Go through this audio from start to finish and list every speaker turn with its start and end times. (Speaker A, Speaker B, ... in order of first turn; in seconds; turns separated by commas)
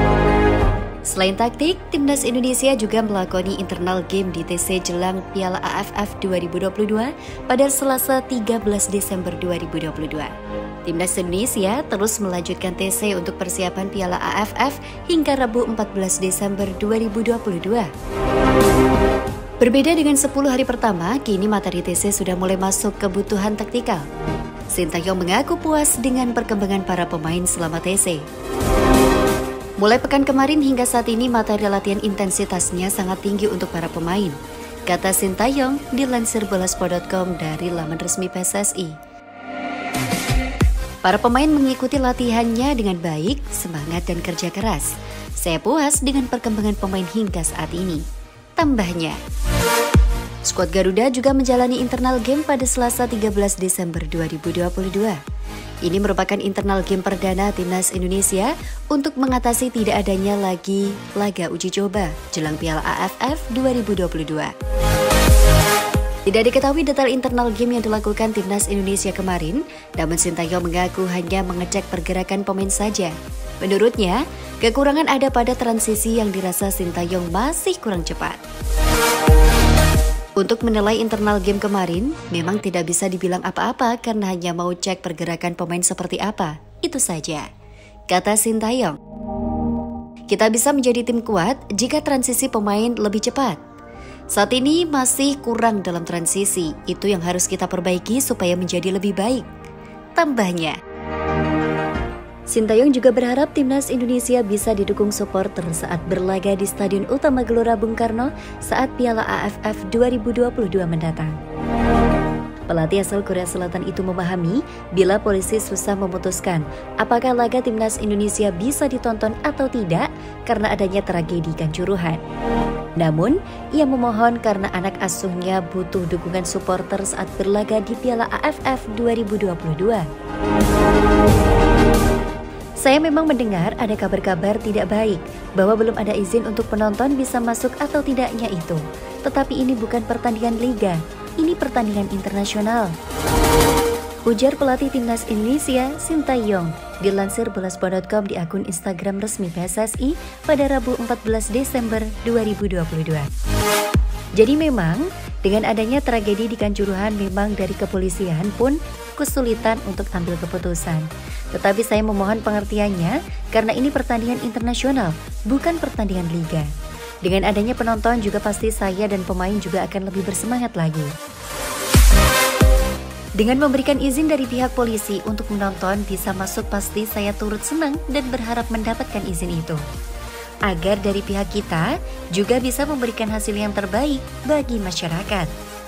Speaker A: 1.0-10.3, Speaker A: 10.8-17.9, Speaker A: 19.6-24.1, Speaker A: 24.7-28.2, Speaker A: 29.8-39.0, Speaker A: 41.0-48.0, Speaker A: 48.6-49.2, Speaker A: 50.4-55.2, Speaker A: 55.8-64.5, Speaker A: 66.2-78.4, Speaker A: 80.4-87.5, Speaker A: 88.1-89.0, Speaker A: 90.3-93.6, Speaker A: 94.3-99.5, Speaker A: 100.2-100.8, Speaker A: 102.5-111.4, Speaker A: 112.7-122.2, Speaker A: 123.0-130.1, Speaker A: 132.8-142.9, Speaker A: 144.2-153.3, Speaker A: 154.3-166.7, Speaker A: 167.2-171.1, Speaker A: 173.4-179.8, Speaker A: 180.7-185.5